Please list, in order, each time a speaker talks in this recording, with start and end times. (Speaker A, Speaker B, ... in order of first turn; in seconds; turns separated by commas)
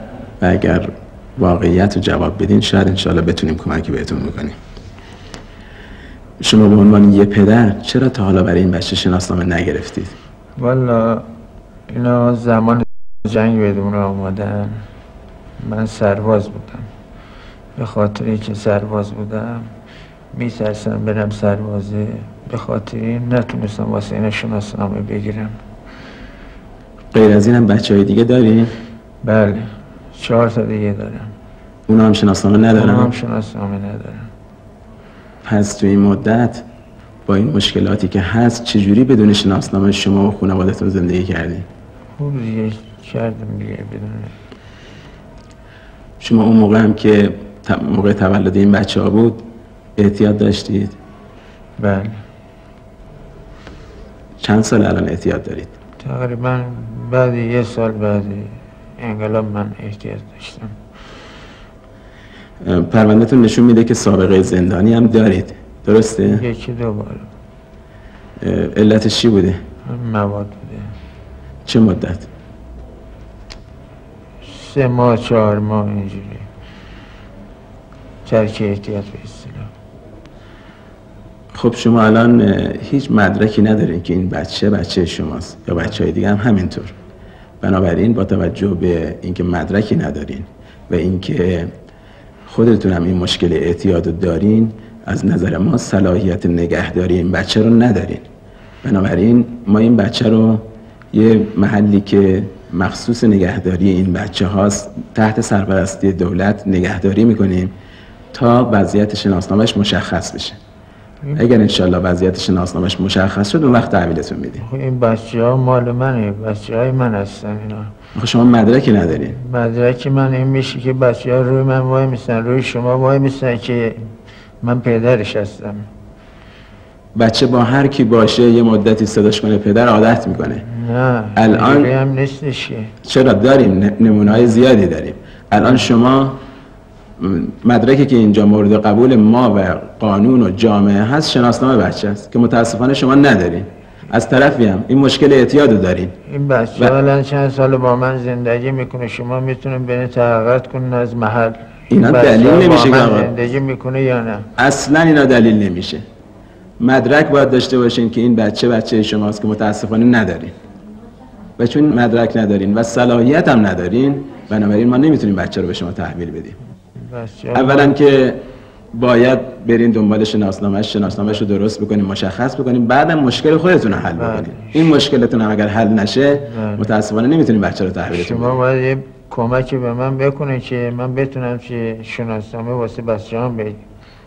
Speaker A: 0.4-4.5, Speaker A: 6.4-10.1, Speaker B: 10.6-11.3, Speaker B: 11.9-14.8, Speaker B: 15.6-16.9, Speaker B: 17.8-19.7, Speaker B: 20.3-25.6, Speaker A: 27.1-28.7, Speaker B: 29.2-31.3, Speaker A: 31.9-33.1, Speaker B: 32.8-34.3, Speaker A: 35.4-36.6, Speaker A: 37.2-41.6, Speaker B: 42.1-44.4, Speaker A: 46.2-49.5, Speaker A: 50.0-51.0, Speaker B: 51.8-52.2, Speaker A: 54.4-55.7, Speaker B: 56.0-60.8, Speaker A: 62.6-66.4, Speaker B: 66.3-67.3, Speaker A: 68.4-69.6, Speaker B: 69.8-71.0, Speaker A: 71.7-72.3, Speaker B: 74.4-76.5, Speaker B: 78.2-79.7, Speaker A: 81.5-86.9, Speaker A: 87.6-91.7, Speaker A: 92.5-98.2, Speaker A: 98.8-107.7, Speaker A: 108.3-110.6, Speaker A: 111.3-114.6, Speaker B: 114.6-117.9, Speaker A: 118.2-119.3, Speaker B: 119.4-125.9, Speaker A: 127.2-130.6, Speaker B: 130.6-132.9, Speaker A: 131.4-131.9, Speaker A: 133.0-136.4, Speaker B: 135.6-135.9, Speaker A: 137.2-146.1, Speaker B: 146.2-154.5, Speaker A: 151.9-153.3, Speaker A: 154.6-156.0, Speaker A: 156.8-160.5, Speaker A: 161.6-166.6, Speaker B: 166.9-167.9, Speaker A: 167.5-178.6, Speaker B: 174.1-174.9, Speaker B: 176.4-176.9, Speaker B: 178.1-183.8